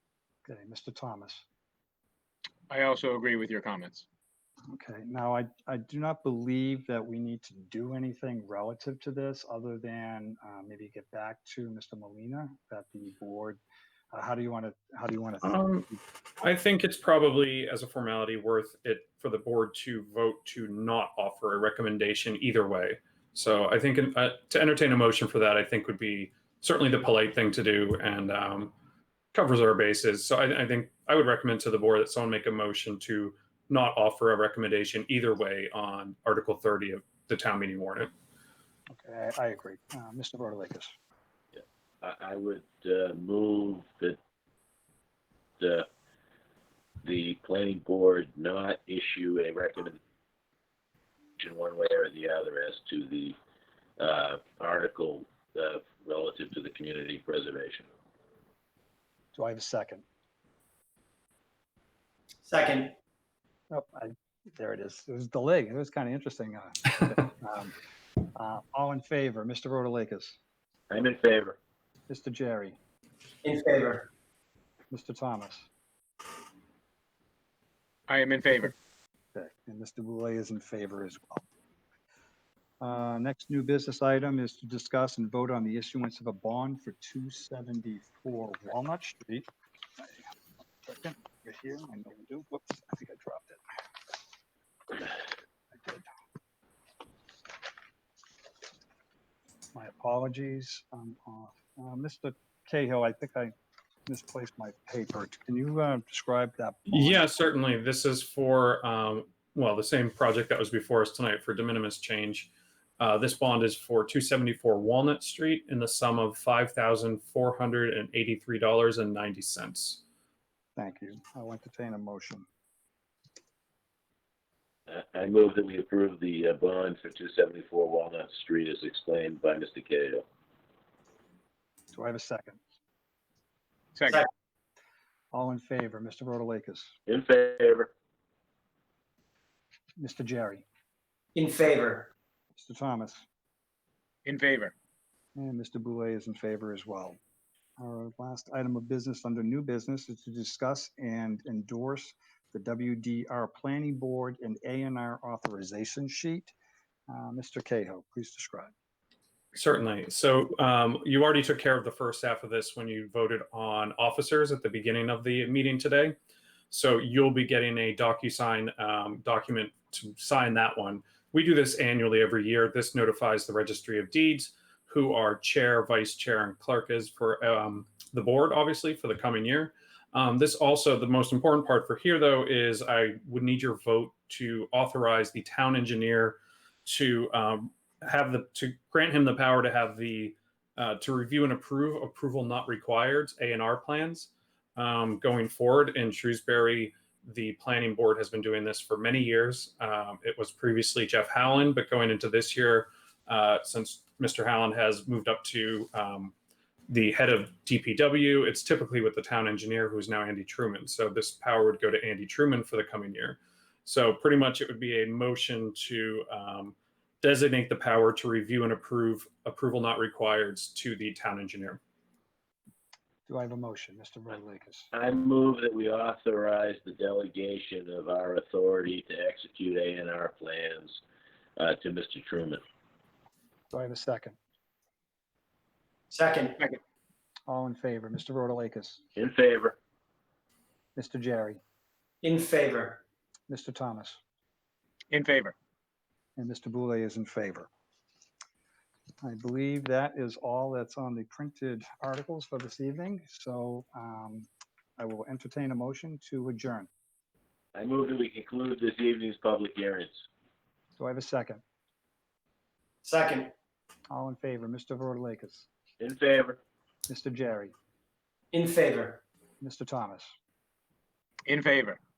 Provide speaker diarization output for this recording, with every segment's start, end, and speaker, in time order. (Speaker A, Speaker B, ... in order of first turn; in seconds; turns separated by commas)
Speaker A: 0.4-1.4, Speaker B: 2.7-4.0, Speaker A: 4.7-13.6, Speaker A: 14.1-16.0, Speaker C: 15.4-15.9, Speaker C: 16.4-28.7, Speaker C: 29.3-38.1, Speaker A: 38.9-40.9, Speaker D: 41.5-44.2, Speaker D: 45.6-45.9, Speaker D: 47.0-50.0, Speaker D: 51.4-53.4, Speaker D: 54.0-57.9, Speaker A: 59.3-60.0, Speaker E: 62.4-63.0, Speaker A: 63.7-67.7, Speaker A: 68.3-70.4, Speaker D: 70.9-71.6, Speaker A: 72.1-72.8, Speaker E: 73.4-74.1, Speaker A: 74.9-75.7, Speaker B: 78.1-78.7, Speaker A: 79.3-81.4, Speaker A: 82.8-90.2, Speaker A: 90.8-93.6, Speaker A: 95.7-96.0, Speaker A: 99.7-103.5, Speaker A: 104.1-107.2, Speaker C: 106.9-120.0, Speaker A: 120.8-122.5, Speaker D: 124.9-130.2, Speaker A: 131.9-132.6, Speaker B: 133.9-134.2, Speaker A: 135.3-136.9, Speaker D: 137.1-137.9, Speaker A: 140.0-140.6, Speaker E: 141.3-142.1, Speaker A: 142.6-143.2, Speaker B: 144.2-144.7, Speaker A: 145.3-147.2, Speaker A: 147.8-156.5, Speaker A: 157.1-158.7, Speaker C: 159.5-166.2, Speaker C: 166.7-206.3, Speaker C: 206.9-221.8, Speaker A: 223.3-224.9, Speaker D: 224.9-231.0, Speaker D: 231.6-232.6, Speaker A: 233.7-234.4, Speaker E: 236.1-236.7, Speaker A: 237.5-239.0, Speaker D: 239.2-239.8, Speaker A: 240.9-241.6, Speaker E: 242.2-243.0, Speaker A: 243.5-244.2, Speaker B: 245.1-245.5, Speaker A: 246.4-247.7, Speaker A: 249.2-256.9, Speaker D: 257.7-260.2, Speaker A: 261.0-261.6, Speaker E: 263.0-263.5, Speaker A: 264.1-265.7, Speaker D: 266.0-266.6, Speaker A: 267.1-267.7, Speaker E: 268.5-269.2, Speaker A: 269.6-270.3, Speaker B: 271.4-272.0